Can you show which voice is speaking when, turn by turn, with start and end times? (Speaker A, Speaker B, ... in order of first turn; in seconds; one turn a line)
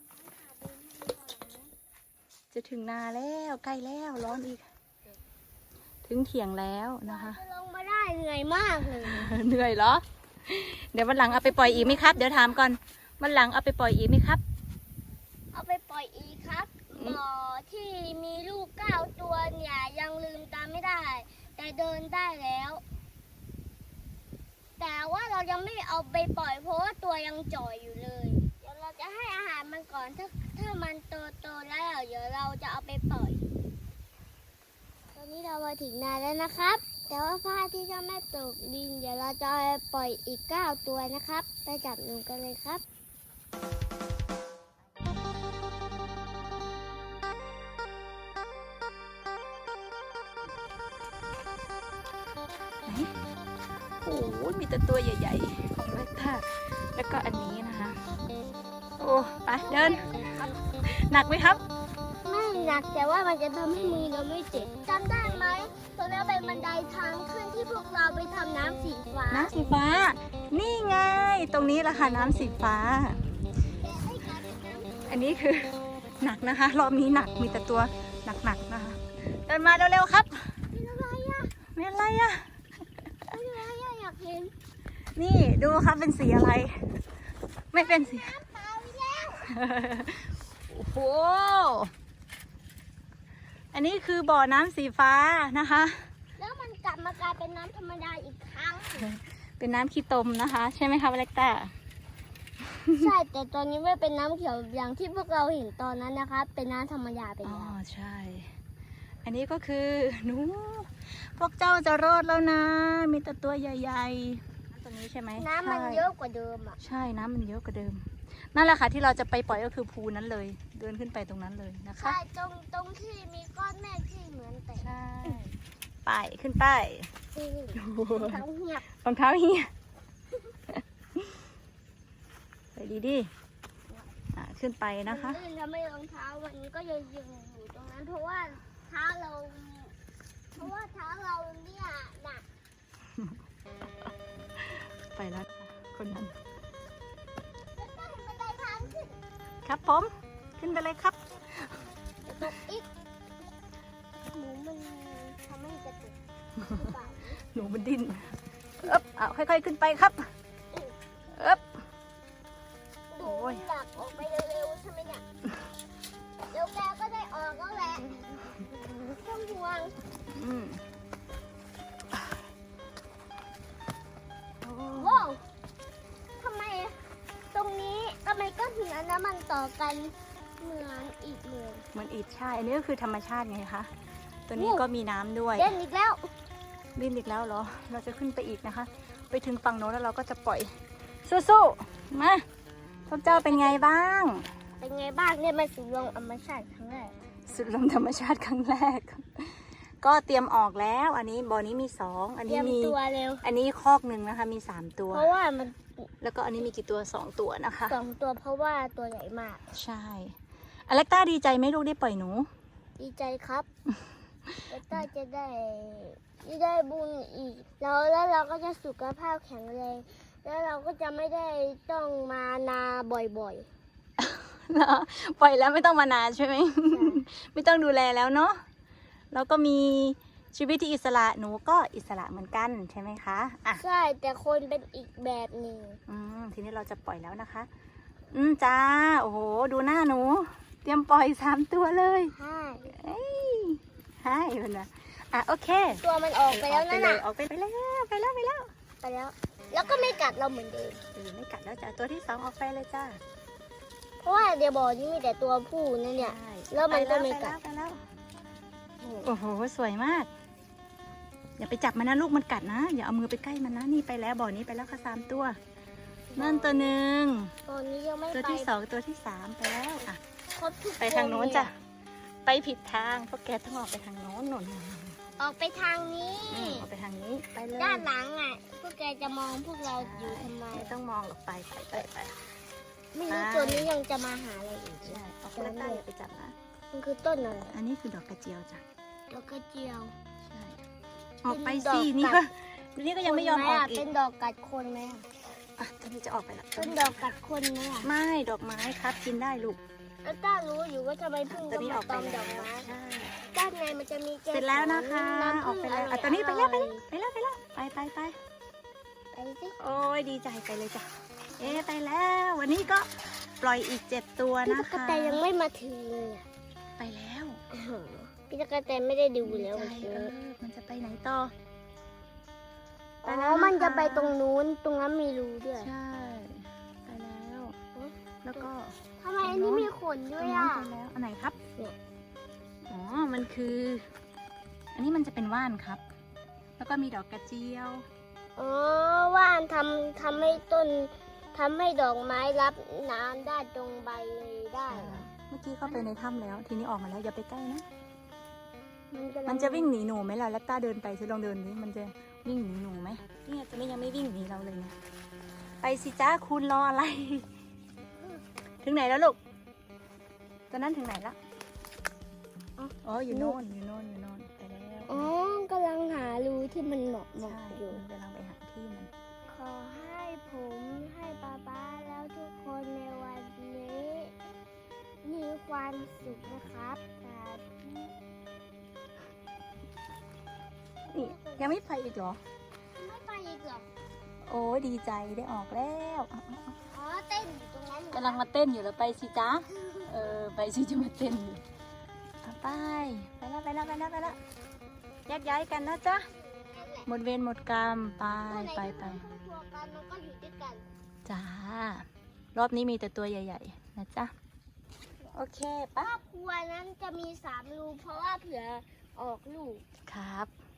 Speaker A: 0.2-1.7
Speaker B: 2.5-4.6
Speaker B: 6.0-7.4
Speaker A: 7.1-9.4
Speaker B: 9.0-14.4
Speaker A: 11.3-12.5
Speaker A: 15.5-22.8
Speaker A: 24.8-33.4
Speaker A: 35.1-42.8
Speaker B: 52.9-53.1
Speaker B: 54.0-58.0
Speaker B: 59.0-60.2
Speaker A: 59.6-60.6
Speaker B: 60.8-61.6
Speaker A: 62.2-69.5
Speaker B: 69.3-73.2
Speaker A: 73.8-75.3
Speaker B: 75.1-80.5
Speaker A: 80.7-81.5
Speaker B: 81.8-82.5
Speaker A: 83.3-84.5
Speaker B: 85.2-86.9
Speaker B: 87.7-88.3
Speaker A: 87.8-89.5
Speaker B: 89.4-91.9
Speaker B: 93.7-96.1
Speaker A: 96.4-99.1
Speaker B: 99.0-101.7
Speaker B: 102.8-103.1
Speaker A: 103.0-107.8
Speaker B: 107.4-108.5
Speaker B: 109.2-116.0
Speaker A: 115.4-116.8
Speaker B: 116.8-122.2
Speaker A: 122.0-125.4
Speaker B: 124.8-127.1
Speaker A: 127.3-128.8
Speaker B: 127.8-128.4
Speaker B: 129.0-129.7
Speaker B: 130.7-131.4
Speaker B: 132.8-133.3
Speaker B: 134.3-135.4
Speaker A: 135.1-139.9
Speaker A: 140.6-142.4
Speaker B: 144.6-146.4
Speaker A: 147.8-149.2
Speaker B: 149.7-151.8
Speaker A: 152.3-152.9
Speaker A: 154.3-156.2
Speaker A: 156.7-157.4
Speaker B: 157.5-160.3
Speaker B: 161.3-161.8
Speaker A: 163.1-165.2
Speaker B: 163.2-163.7
Speaker A: 166.5-168.2
Speaker A: 169.1-169.9
Speaker B: 170.3-170.8
Speaker B: 174.6-175.3
Speaker A: 175.0-175.4
Speaker A: 176.4-177.0
Speaker A: 177.5-181.8
Speaker B: 181.9-183.9
Speaker B: 184.5-185.7
Speaker A: 184.6-184.8
Speaker A: 185.6-186.3
Speaker B: 186.9-190.7
Speaker B: 191.2-192.4
Speaker B: 193.1-194.5
Speaker A: 193.3-193.8
Speaker A: 194.8-197.1
Speaker B: 197.5-205.3
Speaker A: 202.5-203.4
Speaker A: 205.1-205.8
Speaker B: 206.2-208.0
Speaker A: 207.9-209.6
Speaker B: 209.7-210.4
Speaker B: 210.9-212.5
Speaker A: 213.0-213.7
Speaker B: 214.5-215.0
Speaker A: 214.7-223.7
Speaker B: 224.2-228.6
Speaker A: 226.9-227.2
Speaker B: 229.3-233.8
Speaker A: 233.8-236.0
Speaker B: 236.1-237.7
Speaker B: 238.3-242.3
Speaker A: 242.3-242.9
Speaker B: 242.9-248.7
Speaker A: 245.9-247.2
Speaker A: 249.0-251.0
Speaker B: 249.8-250.2
Speaker B: 251.2-253.2
Speaker A: 254.2-257.6
Speaker B: 256.2-258.0
Speaker B: 259.0-260.3
Speaker B: 261.6-265.6
Speaker A: 266.3-266.9
Speaker B: 266.4-267.5
Speaker A: 267.7-268.7
Speaker B: 268.3-270.2
Speaker A: 270.6-271.7
Speaker B: 271.0-271.8
Speaker B: 272.4-275.2
Speaker A: 275.4-276.9
Speaker B: 276.5-278.1
Speaker A: 277.8-280.9
Speaker B: 280.0-282.4
Speaker A: 283.1-286.0
Speaker B: 283.3-283.9
Speaker B: 285.0-286.5
Speaker A: 286.9-287.7
Speaker B: 287.6-288.8
Speaker A: 289.3-290.1
Speaker B: 290.4-290.8
Speaker B: 291.4-294.1
Speaker A: 291.5-292.4
Speaker A: 293.2-295.3
Speaker B: 295.8-297.3
Speaker A: 296.8-298.1
Speaker B: 298.0-299.8
Speaker A: 300.2-302.9
Speaker B: 301.5-303.4
Speaker A: 303.5-307.0
Speaker B: 304.5-308.4
Speaker A: 309.3-309.8
Speaker B: 309.8-311.1
Speaker B: 311.6-313.1
Speaker B: 313.6-315.4
Speaker A: 314.7-316.4
Speaker B: 317.0-317.6
Speaker A: 317.7-320.3
Speaker B: 319.4-321.5
Speaker A: 323.2-325.9
Speaker B: 323.2-324.4
Speaker B: 325.8-327.8
Speaker A: 327.9-328.7
Speaker B: 328.4-331.6
Speaker A: 329.2-330.9
Speaker B: 332.9-334.1
Speaker B: 334.9-336.0
Speaker B: 336.8-338.1
Speaker A: 338.6-345.3
Speaker B: 344.9-347.9
Speaker A: 345.9-346.1
Speaker A: 349.1-349.9
Speaker B: 349.5-355.0
Speaker B: 355.8-357.5
Speaker B: 358.8-359.4
Speaker B: 360.7-361.4
Speaker A: 362.8-363.6
Speaker B: 363.0-365.3
Speaker A: 365.1-368.0
Speaker B: 367.4-369.1
Speaker A: 369.5-374.4
Speaker A: 375.2-378.1
Speaker A: 381.1-381.7
Speaker B: 381.1-382.4
Speaker A: 383.0-383.9
Speaker B: 384.5-386.8
Speaker A: 386.9-388.4
Speaker B: 388.1-391.6
Speaker A: 389.7-390.1
Speaker B: 392.4-394.4
Speaker B: 395.3-396.3
Speaker A: 396.2-397.1
Speaker B: 397.1-399.2
Speaker A: 398.4-400.8
Speaker B: 401.3-404.3
Speaker B: 405.3-406.1
Speaker A: 406.0-409.8
Speaker B: 410.1-410.5